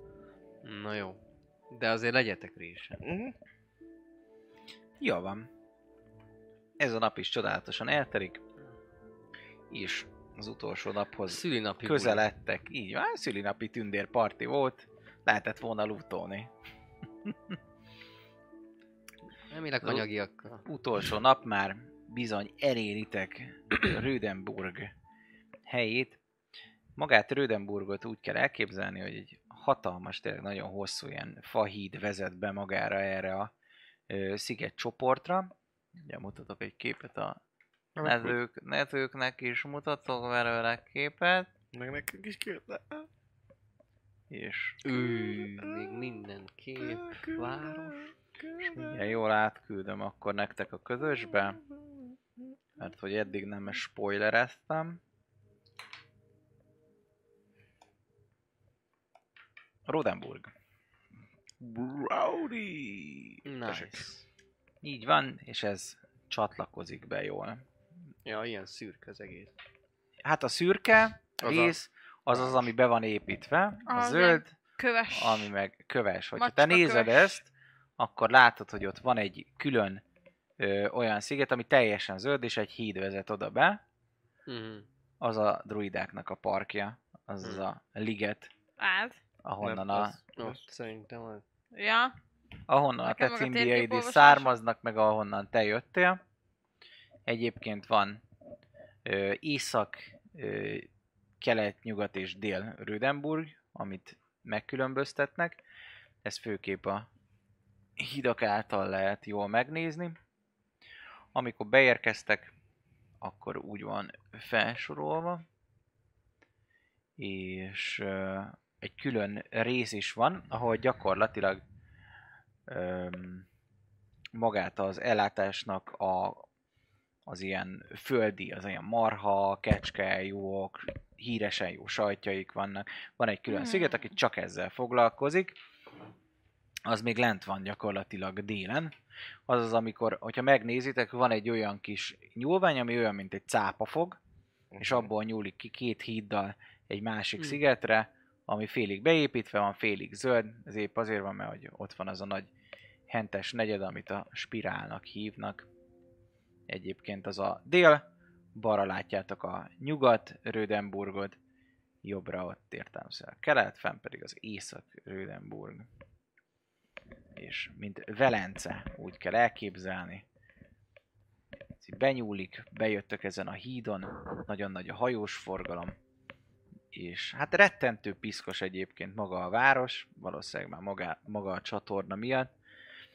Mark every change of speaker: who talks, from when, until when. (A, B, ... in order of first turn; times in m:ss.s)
0:00.6-0:03.0 A
0:03.0-0:03.3 B
0:05.0-0:05.5 C
0:06.8-0:08.4 C
0:09.7-0:16.5 C
0:11.3-0:12.2 A
0:17.2-0:17.6 C
0:19.5-0:20.7 A
0:20.6-0:24.9 C
0:25.7-0:26.2 C
0:27.0-0:33.5 C
0:34.1-0:35.5 C
0:36.0-0:37.4 C
0:38.0-0:38.4 B
0:38.0-0:41.5 C
0:41.7-0:43.1 B
0:44.3-0:44.8 C
0:44.8-0:48.1 A
0:45.6-0:45.9 B
0:46.8-0:47.8 B
0:48.4-0:49.0 B
0:48.8-0:51.6 C
0:52.8-0:55.0 C
0:59.9-1:00.5 C
1:01.6-1:04.0 B
1:03.4-1:04.2 A
1:04.8-1:07.6 C
1:08.2-1:09.5 A
1:10.2-1:14.6 C
1:11.4-1:11.8 A
1:12.3-1:12.7 A
1:13.9-1:15.5 D
1:15.1-1:20.0 C
1:16.4-1:17.4 D
1:20.6-1:23.8 C
1:24.5-1:24.9 A
1:25.2-1:28.5 C
1:28.8-1:29.2 D
1:29.4-1:30.2 C
1:29.6-1:30.6 B
1:30.4-1:31.4 A
1:31.7-1:32.2 D
1:32.7-1:36.2 C
1:33.0-1:34.6 D
1:37.3-1:38.2 C
1:39.0-1:40.9 C
1:41.4-1:45.6 C
1:46.2-1:47.1 C
1:48.0-1:50.2 C
1:51.3-1:52.5 C
1:53.2-1:55.4 C
1:57.2-2:01.6 C
2:02.7-2:03.5 C
2:04.4-2:06.5 C
2:07.3-2:15.6 C
2:13.5-2:14.0 D
2:16.9-2:18.9 C
2:19.5-2:24.2 C
2:24.7-2:25.1 B
2:24.8-2:32.5 C
2:33.1-2:35.7 C
2:36.7-2:41.4 C
2:42.0-2:45.9 C
2:47.4-2:50.2 C
2:51.8-2:56.0 C
2:56.9-3:02.5 C